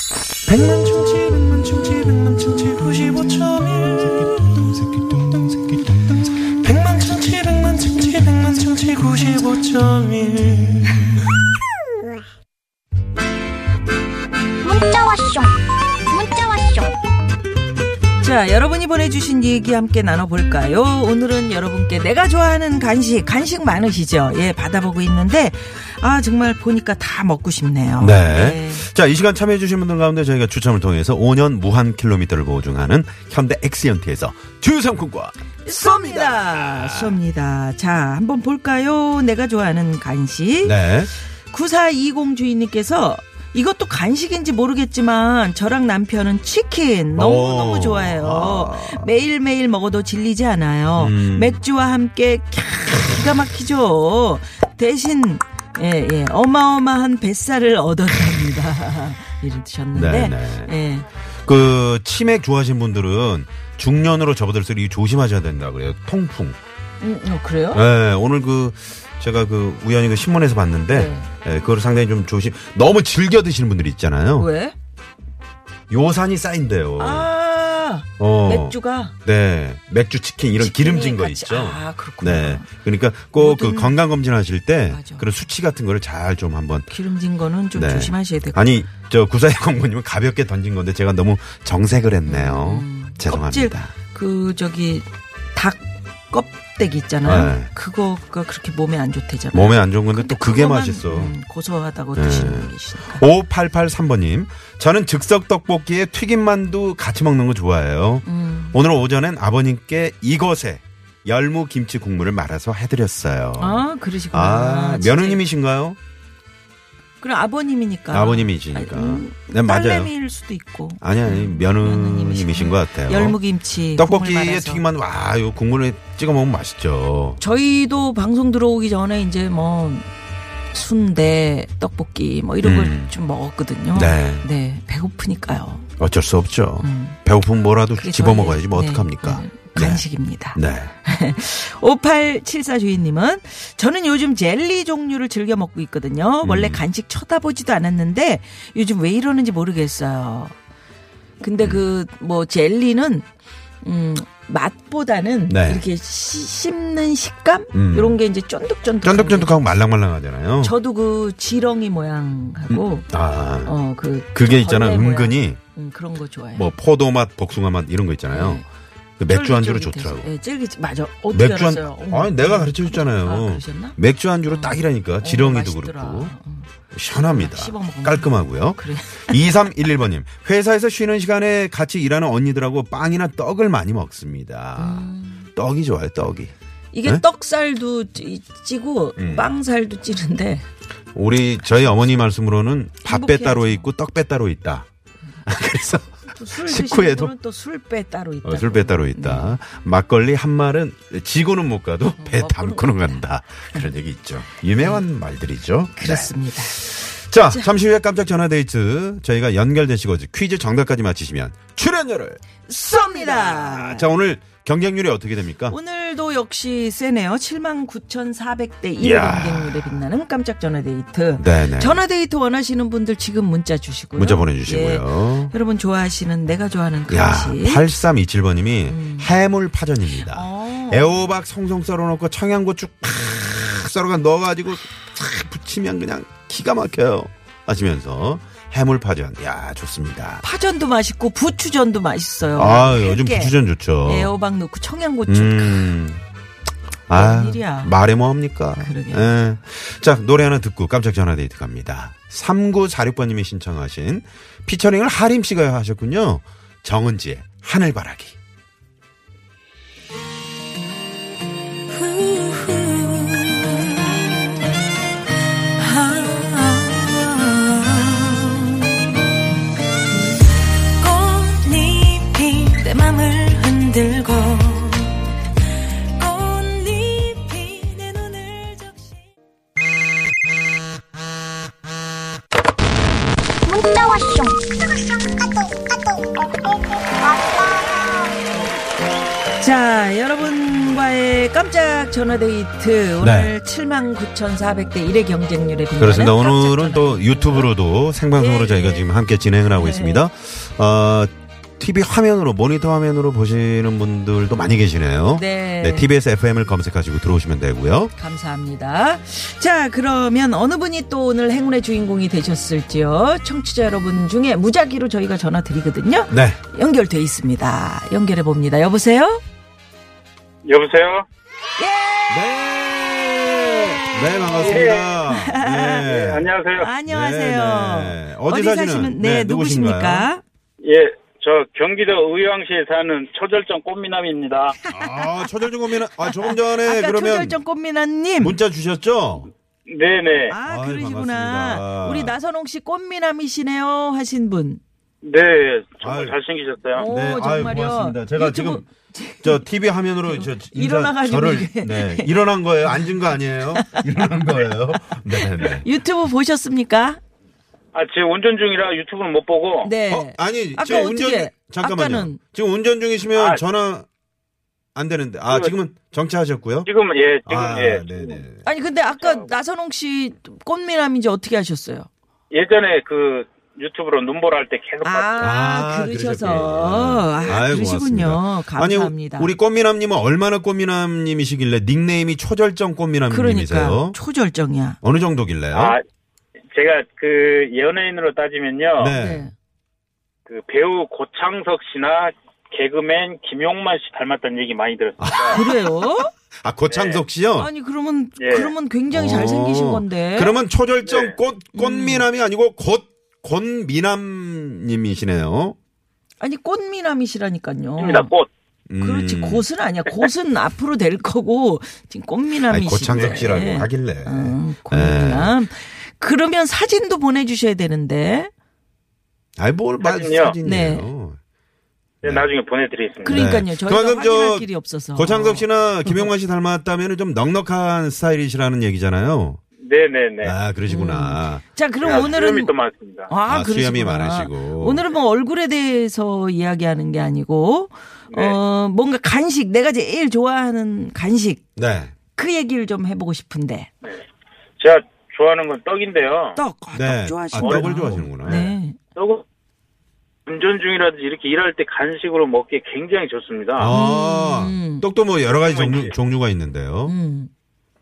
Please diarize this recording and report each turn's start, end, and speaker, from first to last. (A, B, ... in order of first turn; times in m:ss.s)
0:00.5-0:11.1 A
0:14.6-0:17.0 B
0:18.2-0:28.9 C
0:28.0-0:37.2 D
0:35.6-0:40.8 C
0:40.6-0:41.1 D
0:41.4-1:01.1 C
0:47.1-0:49.1 D
0:51.0-0:51.6 D
0:59.9-1:00.7 D
1:01.4-1:06.6 D
1:07.0-1:07.8 C
1:07.7-1:14.5 D
1:10.9-1:11.3 C
1:14.4-1:14.7 C
1:15.9-1:17.3 D
1:17.0-1:19.1 C
1:18.2-1:26.9 D
1:20.6-1:22.7 C
1:23.3-1:24.0 C
1:24.9-1:25.3 C
1:26.9-1:28.6 C
1:27.8-1:33.9 D
1:32.2-1:43.2 C
1:37.2-1:37.7 D
1:39.5-1:41.3 D
1:42.2-1:56.0 D
1:48.2-1:48.8 C
1:53.6-1:55.4 C
1:57.2-2:04.8 C
1:58.1-2:00.1 D
2:01.0-2:03.4 D
2:04.0-2:07.4 D
2:07.4-2:10.1 C
2:10.7-2:15.9 C
2:12.6-2:13.1 D
2:13.9-2:14.5 D
2:16.0-2:20.9 D
2:16.8-2:17.2 C
2:17.9-2:30.5 C
2:26.4-2:26.8 D
2:31.4-2:33.2 C
2:33.8-2:39.5 C
2:35.5-2:35.8 D
2:37.7-2:38.2 D
2:39.0-2:40.7 D
2:40.6-2:43.1 C
2:42.7-2:43.7 D
2:43.6-2:46.7 C
2:44.3-2:45.6 D
2:46.5-2:48.6 D
2:48.3-2:48.6 C
2:49.2-2:50.3 D
2:49.3-2:59.4 C
2:51.3-2:56.3 D
2:56.9-3:06.5 D
3:04.8-3:05.5 C
3:06.9-3:10.6 C
3:09.2-3:09.5 D
3:11.1-3:14.9 D
3:13.0-3:13.9 C
3:15.4-3:17.3 D
3:16.3-3:19.6 C
3:18.4-3:35.8 D
3:22.2-3:23.9 C
3:24.8-3:25.0 C
3:26.0-3:26.8 C
3:32.7-3:34.1 C
3:35.7-3:47.9 C
3:39.0-3:40.0 D
3:41.4-3:42.0 D
3:44.1-3:45.5 D
3:47.1-4:00.4 D
3:48.9-3:49.3 C
3:50.2-3:51.2 C
4:00.4-4:05.9 C
4:02.5-4:04.3 D
4:05.3-4:06.2 D
4:07.1-4:18.4 D
4:07.1-4:07.9 C
4:08.8-4:09.3 C
4:21.9-4:24.6 C
4:25.8-4:29.0 C
4:30.6-4:35.4 C
4:36.2-4:39.2 C
4:43.6-4:45.9 B
4:47.2-4:48.4 B
4:49.6-4:57.7 C
4:53.2-4:53.6 D
4:56.0-5:08.1 D
4:58.4-4:59.1 C
4:59.7-5:00.2 C
5:05.4-5:06.1 C
5:08.2-5:19.4 C
5:16.3-5:16.6 D
5:20.6-5:21.3 E
5:21.8-5:22.5 C
5:22.3-5:26.5 D
5:24.6-5:25.2 E
5:25.2-5:26.0 C
5:26.0-5:26.9 E
5:26.8-5:30.4 C
5:27.1-5:30.3 D
5:30.8-5:34.8 E
5:34.8-5:38.6 C
5:34.9-5:37.6 D
5:38.4-5:39.5 D
5:39.9-5:40.6 E
5:40.5-5:44.8 C
5:40.6-5:42.4 D
5:45.2-5:47.1 E
5:46.0-5:46.4 D
5:46.9-5:49.6 C
5:47.0-5:48.8 D
5:49.4-5:55.9 D
5:50.2-5:54.1 C
5:55.3-5:57.2 C
5:57.9-5:59.9 E
5:59.8-6:02.4 C
6:00.1-6:04.1 D
6:03.3-6:03.6 E
6:04.9-6:06.9 D
6:05.5-6:05.7 E
6:06.8-6:08.4 E
6:07.5-6:08.7 D
6:08.6-6:12.1 C
6:09.1-6:09.5 E
6:12.5-6:15.5 E
6:15.0-6:19.6 C
6:15.4-6:24.2 D
6:23.3-6:25.0 C
6:25.0-6:26.0 D
6:25.7-6:26.0 E
6:26.7-6:29.2 E
6:29.0-6:29.5 D
6:29.1-6:29.5 C
6:30.5-6:35.6 E
6:35.2-6:35.9 D
6:35.5-6:36.3 C
6:36.6-6:37.7 D
6:36.9-6:37.2 E
6:37.6-6:40.6 C
6:38.4-6:38.7 E
6:39.1-6:45.8 D
6:41.0-6:41.4 E
6:41.7-6:42.3 C
6:46.4-6:48.3 C
6:48.0-6:48.5 E
6:48.9-6:49.6 D
6:49.0-6:58.5 C
6:52.6-6:55.6 D
6:59.6-7:01.4 D
7:00.0-7:00.6 E
7:00.6-7:01.1 C
7:02.2-7:02.5 D
7:02.2-7:03.5 E
7:03.2-7:06.3 C
7:03.3-7:09.6 D
7:09.8-7:10.6 E
7:10.4-7:12.4 D
7:10.9-7:12.7 C
7:12.0-7:13.3 E
7:13.3-7:21.6 C
7:13.4-7:15.0 D
7:18.3-7:18.6 E
7:21.8-7:22.1 D
7:22.4-7:23.9 C
7:24.8-7:26.6 E
7:26.6-7:29.0 C
7:26.9-7:28.8 D
7:27.6-7:28.6 E
7:29.2-7:29.4 E
7:30.5-7:33.9 E
7:33.8-7:37.2 D
7:33.9-7:35.1 C
7:35.5-7:36.2 E
7:37.1-7:37.5 C